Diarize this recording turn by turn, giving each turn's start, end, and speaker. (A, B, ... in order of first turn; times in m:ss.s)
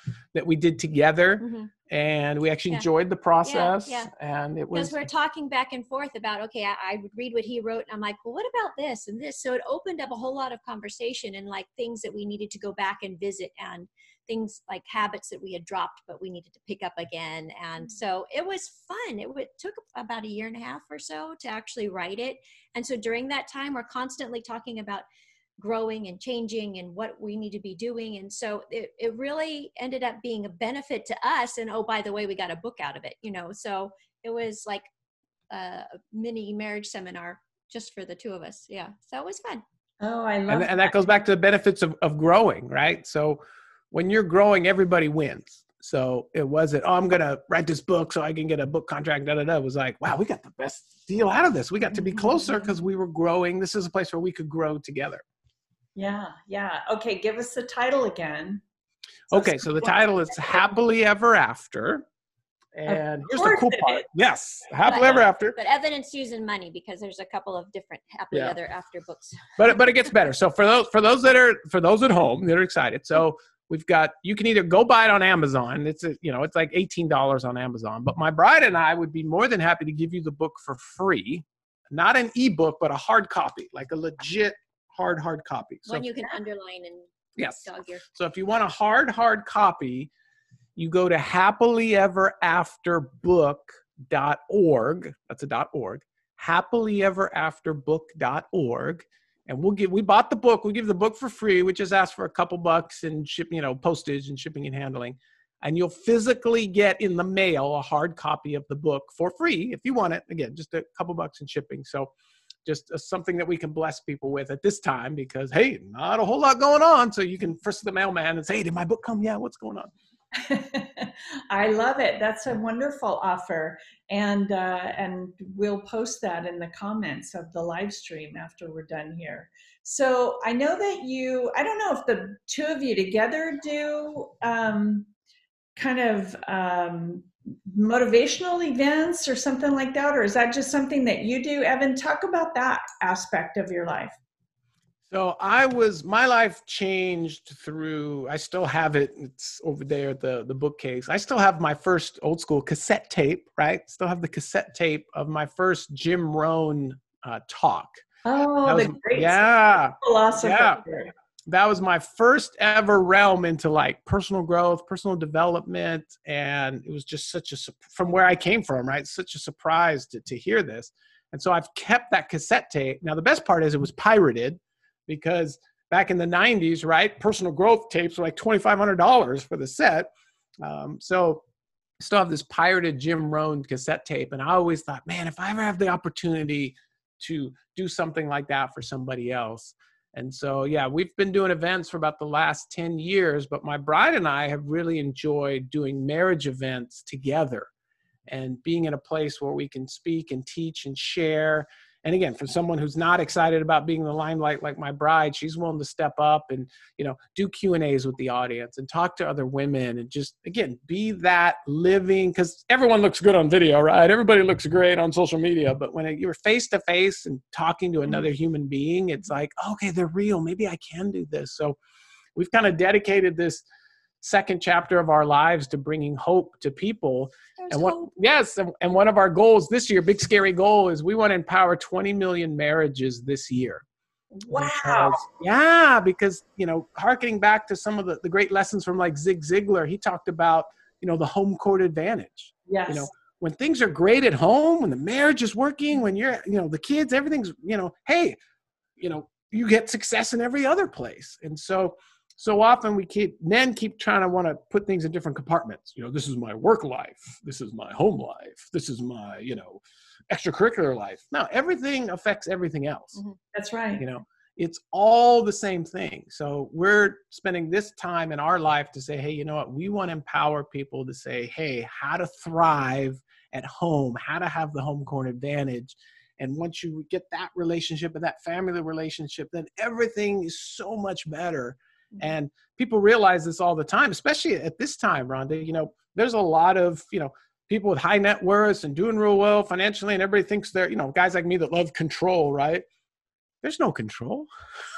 0:00.3-0:05.0 A
0:01.4-0:01.7 B
0:03.4-0:04.1 B
0:04.7-0:25.0 B
0:25.6-0:34.9 B
0:35.5-0:39.6 B
0:40.0-0:40.9 C
0:40.5-0:43.4 A
0:43.9-0:55.2 A
0:56.0-0:58.6 C
0:59.3-1:00.6 C
0:59.3-1:02.0 A
1:02.7-1:05.6 A
1:02.9-1:04.0 C
1:04.8-1:09.8 B
1:09.6-1:26.1 A
1:25.9-1:28.0 B
1:27.4-1:30.1 A
1:30.8-1:52.1 A
1:52.6-1:59.9 A
2:00.3-2:15.1 C
2:15.8-2:24.1 C
2:25.1-2:38.0 A
2:38.2-2:39.5 C
2:38.6-2:40.8 A
2:40.0-2:41.1 C
2:41.5-3:00.1 A
3:00.6-3:01.4 A
3:02.0-3:17.7 A
3:18.3-3:41.8 A
3:42.3-3:43.6 A
3:44.2-3:53.8 A
3:47.6-3:48.1 B
3:54.3-3:55.2 C
3:54.5-4:08.4 A
4:02.7-4:03.1 C
4:09.0-4:23.2 A
4:23.5-4:24.0 C
4:24.0-4:52.8 A
4:53.6-4:54.5 A